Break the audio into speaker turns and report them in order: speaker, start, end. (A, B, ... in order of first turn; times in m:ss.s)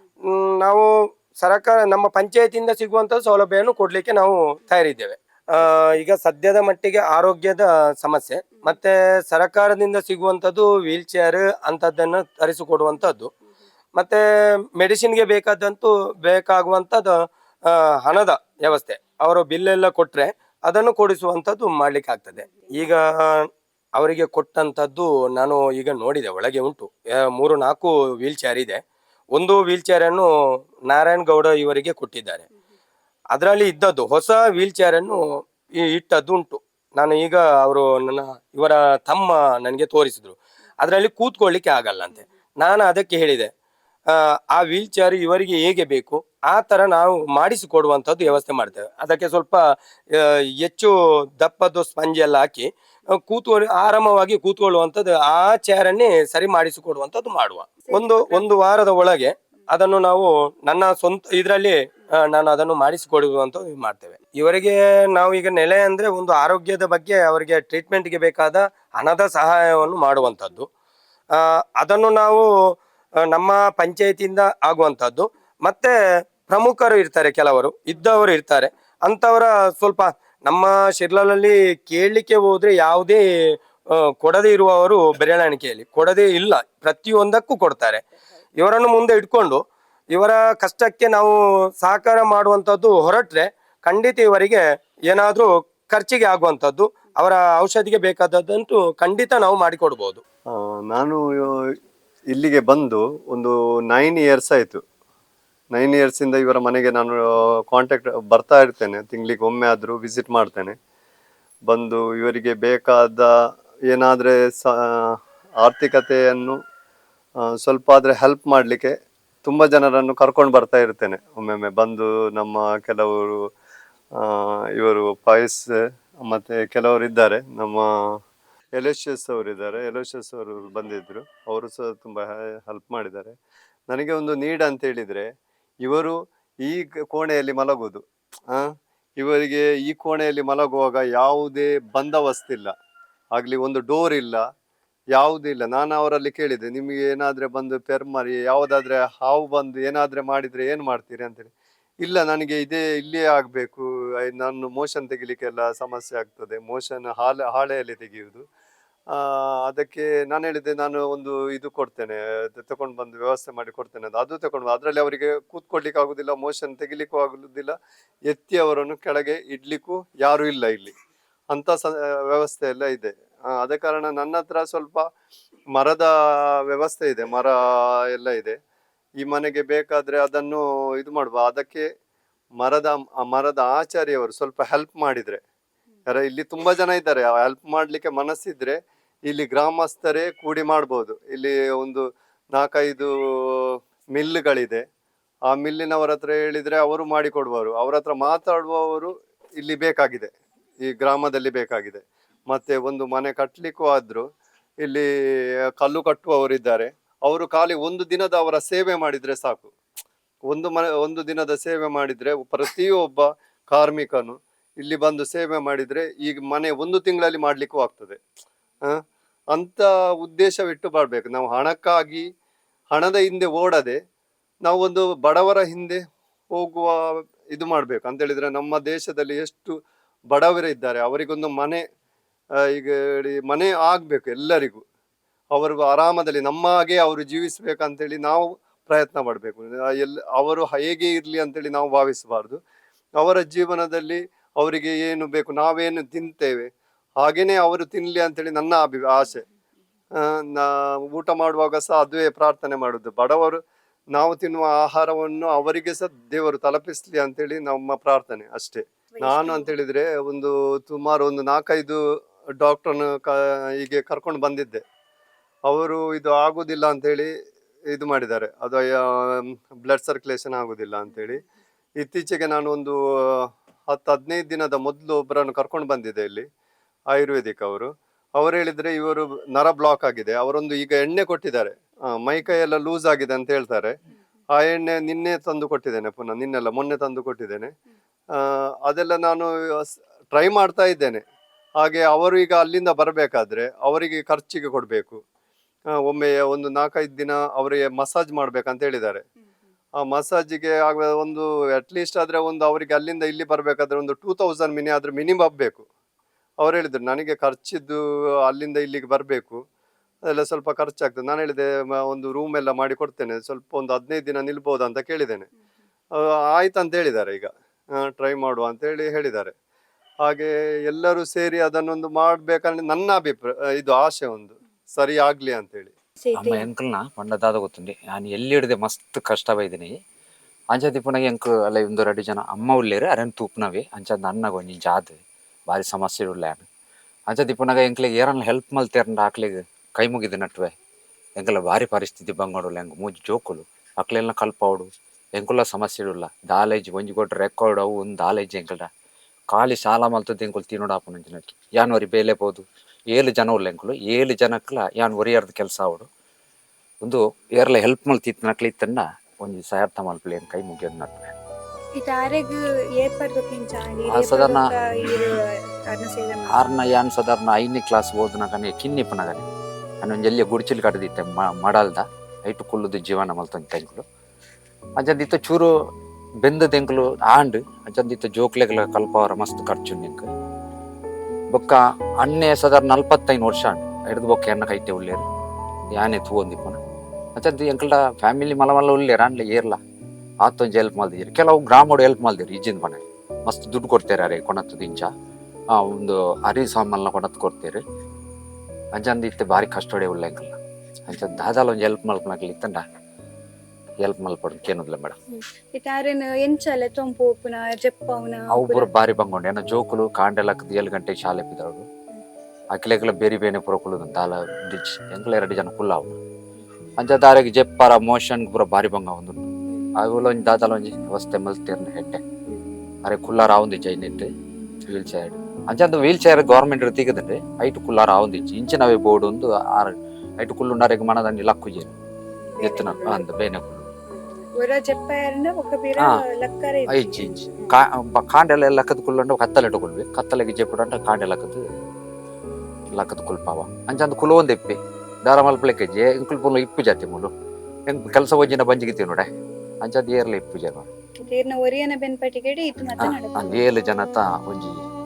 0:00.3-0:13.3 A
0:14.0-0:14.2 A
0:14.8-0:28.8 A
0:29.3-0:30.3 A
0:30.9-0:32.4 A
0:33.3-0:35.2 A
0:35.8-0:43.5 A
0:44.1-0:49.6 A
0:50.1-1:10.7 A
0:57.9-0:58.3 B
1:11.3-1:12.5 A
1:13.2-1:15.9 A
1:16.4-1:23.2 A
1:24.1-1:28.0 A
1:28.6-1:29.6 A
1:30.1-1:40.2 A
1:40.5-1:41.6 C
1:42.3-1:44.8 C
1:45.7-1:50.8 C
1:51.7-1:53.3 C
1:53.9-1:56.6 C
1:57.4-1:58.9 C
1:59.4-2:03.5 C
2:04.2-2:07.9 C
2:08.8-2:13.4 C
2:13.9-2:15.3 C
2:15.8-2:22.7 C
2:23.3-2:24.4 C
2:25.1-2:31.5 C
2:32.0-2:38.4 C
2:39.1-2:47.8 C
2:48.3-2:50.9 C
2:51.5-2:55.0 C
2:55.8-2:56.1 C
2:56.7-2:58.6 C
2:59.2-3:01.9 C
3:02.6-3:05.4 C
3:06.1-3:14.8 C
3:15.5-3:20.3 C
3:20.8-3:24.3 C
3:25.8-3:29.7 C
3:30.5-3:38.2 C
3:38.8-3:42.3 C
3:42.9-3:44.0 C
3:44.6-3:46.0 C
3:46.5-3:49.8 C
3:50.3-3:51.8 C
3:52.6-3:54.8 C
3:55.5-4:02.6 C
4:03.2-4:09.4 C
4:10.2-4:13.6 C
4:14.1-4:22.0 C
4:19.1-4:19.7 B
4:22.6-4:24.8 C
4:25.7-4:27.3 C
4:27.9-4:31.4 C
4:32.0-4:36.5 C
4:37.1-4:43.9 C
4:44.5-4:47.7 C
4:48.4-4:51.2 C
4:51.8-4:55.2 C
4:55.9-4:59.2 C
5:00.0-5:05.8 C
5:06.6-5:09.6 C
5:10.2-5:15.5 C
5:16.2-5:19.5 C
5:20.2-5:25.9 C
5:26.2-5:26.7 B
5:26.3-5:30.0 D
5:30.7-5:35.2 D
5:35.7-5:36.7 D
5:37.3-5:40.7 D
5:41.4-5:48.9 D
5:49.5-5:56.1 D
5:57.0-6:01.3 D
6:02.0-6:06.8 B
6:04.1-6:04.7 D
6:06.5-6:09.4 D
6:10.0-6:14.0 D
6:15.0-6:15.7 D
6:16.4-6:20.3 D
6:21.5-6:25.2 D
6:25.9-6:26.8 D
6:27.4-6:29.8 D
6:30.4-6:35.1 D
6:35.7-6:37.8 D
6:38.9-6:40.6 D
6:41.1-6:42.8 D
6:44.0-6:45.2 D
6:45.3-6:48.9 B
6:48.5-6:51.8 D
6:52.7-6:56.2 D
6:57.0-7:02.2 D
7:02.5-7:02.8 B
7:03.0-7:04.3 D
7:04.9-7:11.9 D
7:12.4-7:13.2 B
7:12.6-7:13.8 D
7:14.1-7:17.8 B
7:16.9-7:21.6 D
7:22.9-7:27.3 D
7:27.9-7:29.3 D
7:29.8-7:30.9 D
7:31.2-7:33.6 B
7:33.0-7:34.8 D